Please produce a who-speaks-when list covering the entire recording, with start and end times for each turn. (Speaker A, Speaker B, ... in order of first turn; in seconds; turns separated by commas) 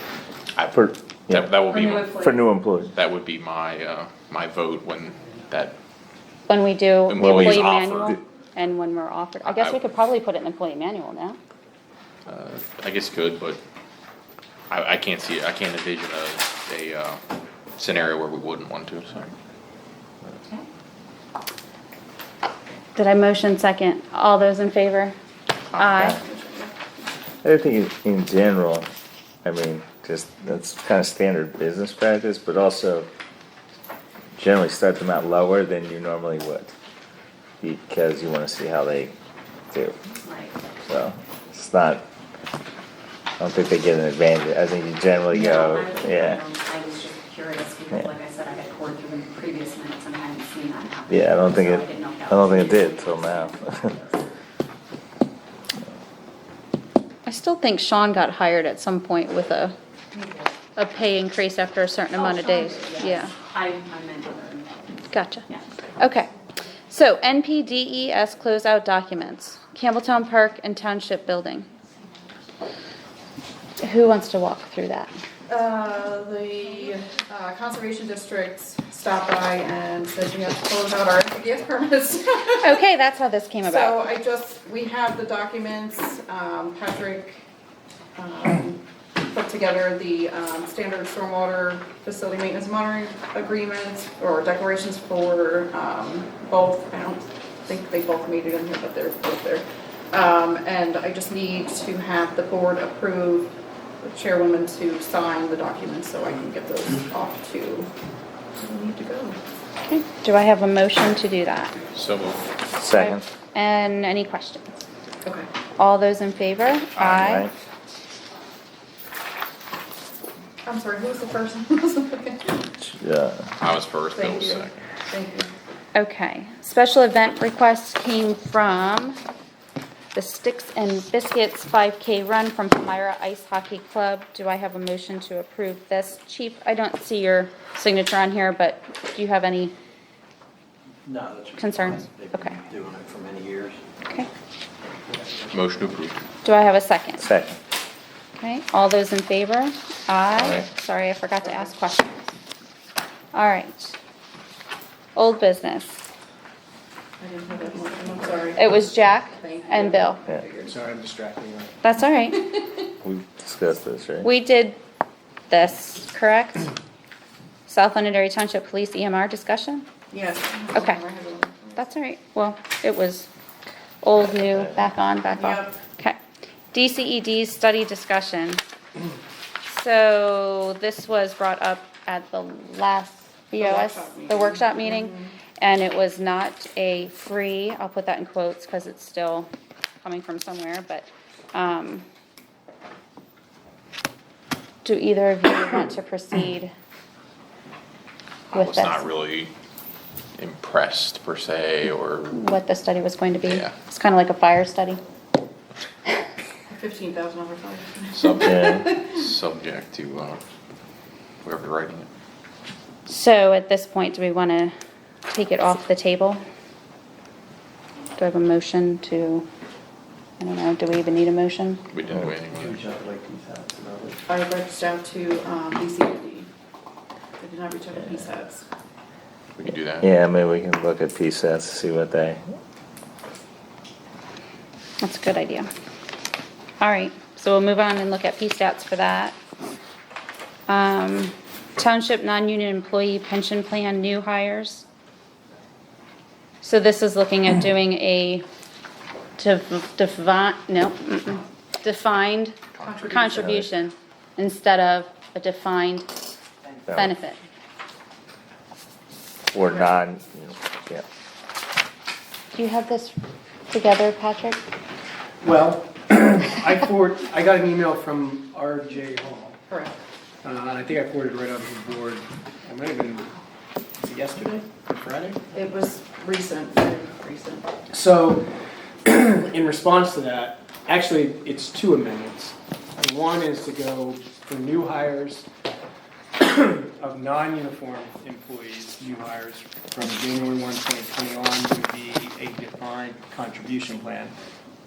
Speaker A: 0.6-2.2, Speaker B: 0.6-2.9, Speaker C: 1.7-2.4, Speaker A: 2.9-5.8, Speaker D: 6.5-11.4, Speaker A: 7.1-8.2, Speaker B: 7.2-8.1, Speaker A: 9.4-9.8, Speaker A: 12.3-13.6, Speaker A: 14.7-17.2, Speaker A: 17.8-19.3, Speaker D: 22.9-25.1, Speaker D: 25.8-26.2, Speaker E: 25.9-26.7, Speaker B: 27.4-28.9, Speaker B: 29.4-33.1, Speaker B: 34.4-36.7, Speaker B: 37.6-39.1, Speaker B: 39.7-40.0, Speaker C: 40.2-40.6, Speaker B: 40.8-42.0, Speaker B: 43.4-46.4, Speaker C: 45.3-54.2, Speaker B: 51.1-53.9, Speaker D: 57.2-59.7, Speaker D: 60.8-63.3, Speaker C: 62.1-65.6, Speaker D: 65.1-65.5, Speaker D: 66.0-66.3, Speaker D: 66.9-71.7, Speaker D: 73.8-75.1, Speaker E: 75.5-82.8, Speaker D: 82.6-84.0, Speaker E: 83.6-87.4, Speaker E: 88.2-107.9, Speaker E: 108.5-109.4, Speaker D: 109.9-111.8, Speaker A: 111.9-112.5, Speaker B: 112.8-113.2, Speaker D: 112.9-114.8, Speaker E: 115.2-115.5, Speaker D: 115.8-117.5, Speaker B: 117.0-117.5, Speaker E: 120.6-122.7, Speaker B: 122.8-123.5, Speaker A: 123.6-124.7, Speaker E: 124.1-125.5, Speaker D: 125.9-129.2, Speaker D: 130.1-139.7, Speaker F: 141.1-143.8, Speaker D: 141.6-142.6, Speaker A: 145.5-146.2, Speaker D: 146.4-147.3, Speaker B: 147.2-147.6, Speaker D: 148.4-152.2, Speaker D: 153.3-154.0, Speaker D: 155.2-156.0, Speaker E: 157.2-160.8, Speaker D: 158.6-160.2, Speaker G: 160.7-161.8, Speaker D: 161.8-162.5, Speaker B: 163.0-164.3, Speaker D: 164.2-164.8, Speaker D: 165.5-166.7, Speaker D: 167.7-169.9, Speaker E: 170.1-171.9, Speaker D: 170.7-171.0, Speaker D: 171.8-173.3, Speaker D: 174.0-176.2, Speaker E: 175.3-175.8, Speaker D: 176.7-178.6, Speaker D: 179.7-189.5, Speaker E: 183.6-185.3, Speaker D: 190.0-192.1, Speaker D: 194.8-196.7, Speaker D: 198.5-199.0, Speaker A: 198.5-199.5, Speaker A: 200.3-202.4, Speaker D: 202.3-205.0, Speaker A: 203.4-203.7, Speaker E: 206.7-209.1, Speaker A: 208.1-210.4, Speaker B: 208.4-208.8, Speaker A: 211.4-212.1, Speaker D: 213.1-214.7, Speaker D: 215.3-216.4, Speaker D: 218.2-219.5, Speaker D: 220.4-221.8, Speaker A: 221.9-222.8, Speaker F: 222.8-224.2, Speaker E: 224.3-226.5, Speaker E: 227.4-228.7, Speaker A: 229.6-230.1, Speaker B: 230.0-232.4, Speaker D: 235.0-235.7, Speaker D: 236.8-239.4, Speaker D: 240.7-244.8, Speaker D: 246.6-248.4, Speaker D: 249.4-256.1, Speaker A: 252.8-253.1, Speaker E: 252.8-253.2, Speaker B: 253.2-253.7, Speaker B: 256.9-257.1, Speaker D: 256.9-257.4, Speaker B: 259.5-261.1, Speaker D: 262.5-263.2, Speaker D: 263.7-264.6, Speaker G: 265.4-269.6, Speaker E: 269.7-270.0, Speaker G: 270.4-273.4, Speaker G: 274.0-275.5, Speaker E: 275.5-277.7, Speaker G: 277.9-278.5, Speaker G: 279.1-285.5, Speaker G: 286.4-294.4